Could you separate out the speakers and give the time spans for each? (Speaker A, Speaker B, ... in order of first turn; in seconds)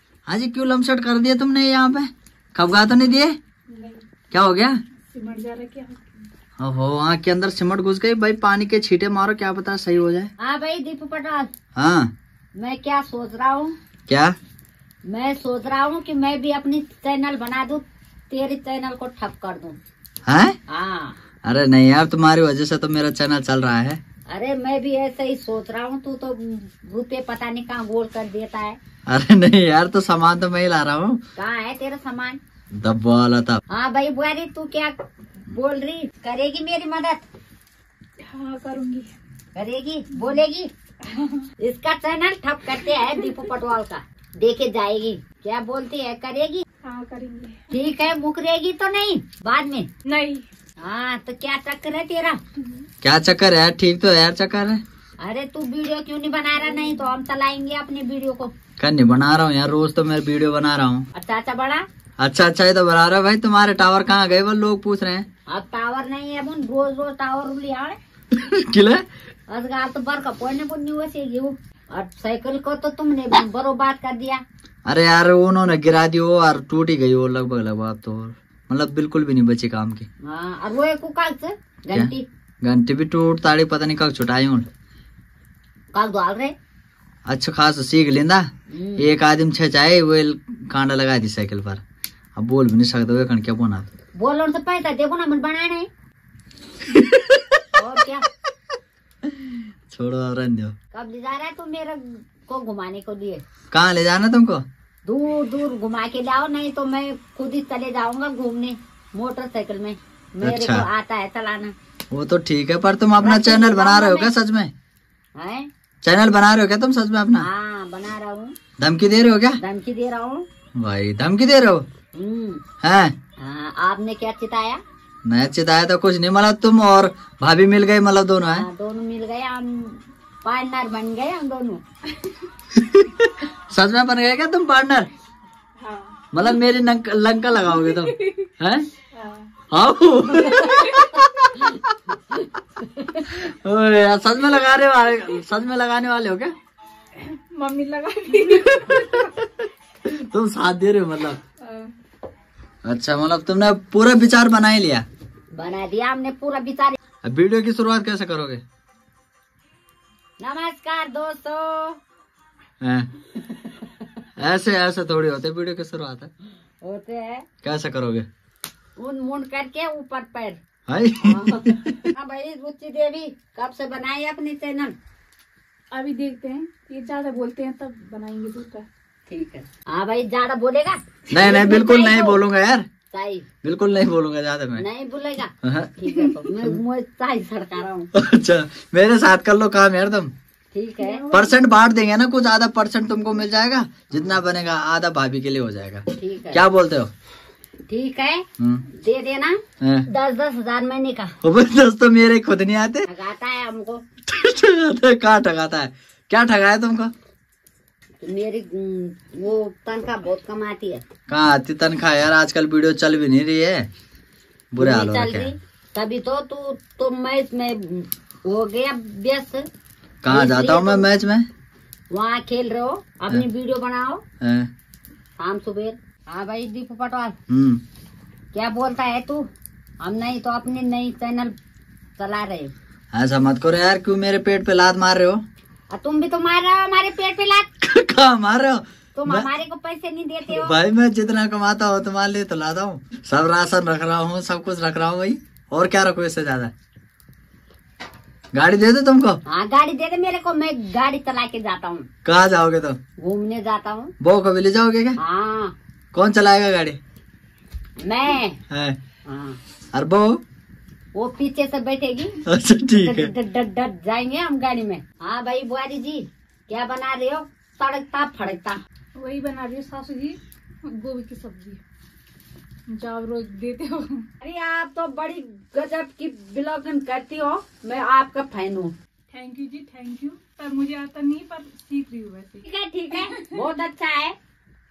Speaker A: 0.3-3.4, 4.3-4.8, 6.6-10.3, 11.7-12.1, 14.1-14.3, 20.3-20.6, 21.4-24.0, 29.1-31.2, 32.7-33.6, 53.0-54.8, 58.8-61.1, 62.2-65.2, 68.3-69.0, 74.8-80.1, 81.9-84.7, 87.2-91.8, 92.4-93.9, 96.8-97.6, 99.2-100.7, 103.7-104.6, 110.4-110.9, 112.1-114.7, 116.0-117.5, 118.8-119.6, 120.8-121.8, 122.8-123.1, 125.2-128.7, 132.7-135.1, 136.3-138.9, 139.7-141.9, 143.1-146.5, 148.8-151.4, 152.8-155.1, 157.2-158.6, 162.8-163.1, 164.4-166.3, 167.6-168.3, 170.9-172.0, 181.3-182.8, 183.6-184.8, 185.6-186.8, 188.1-190.3, 191.3-197.1, 198.6-198.8, 199.8-200.1, 201.4-203.1, 204.3-207.1, 211.3-213.9, 214.7-215.5, 220.2-221.5, 224.4-224.7, 227.5-227.8, 233.1-235.4, 237.8-239.5, 240.5-246.7, 248.5-249.4, 252.2-253.0, 254.2-255.2, 256.1-257.0, 258.7-259.0, 259.9-260.4, 262.4-263.3
Speaker B: 3.7-4.0, 5.1-6.2, 38.2-39.1, 41.0-41.5, 46.8-47.7, 50.0-50.5, 52.6-52.8, 135.8-136.2, 138.1-138.5, 139.1-139.5, 147.2-149.4, 151.6-151.9, 175.9-178.8, 191.0-191.5, 269.2-271.8, 272.9-274.3, 279.3-282.6, 283.2-283.6
Speaker C: 10.4-11.5, 12.6-13.7, 15.1-19.8, 20.7-21.2, 24.3-28.8, 31.4-32.4, 33.7-34.9, 35.5-37.2, 39.5-40.7, 41.6-46.6, 47.7-49.9, 50.8-52.4, 55.2-58.5, 61.1-61.8, 65.5-68.0, 69.5-74.4, 80.2-82.2, 85.9-86.5, 88.7-89.1, 94.2-95.9, 97.8-98.2, 100.9-103.4, 105.0-111.7, 113.2-114.3, 115.3-115.7, 117.4-118.5, 119.6-120.5, 122.1-122.6, 123.4-124.8, 128.4-131.8, 142.8-143.2, 155.5-157.0, 160.4-162.0, 163.5-164.2, 166.8-167.4, 169.0-170.6, 171.2-174.9, 179.3-182.4, 183.1-183.5, 184.8-188.1, 190.7-191.3, 196.2-196.7, 197.9-201.3, 203.0-204.0, 208.2-211.0, 214.8-219.6, 220.3-221.1, 222.1-224.2, 225.4-227.3, 228.5-229.5, 230.0-231.5, 232.2-232.7, 235.9-237.7, 239.1-240.8, 249.5-252.1, 253.2-254.1, 255.2-255.7, 258.0-258.6, 259.2-259.6, 261.1-268.8, 274.4-278.9, 282.6-284.4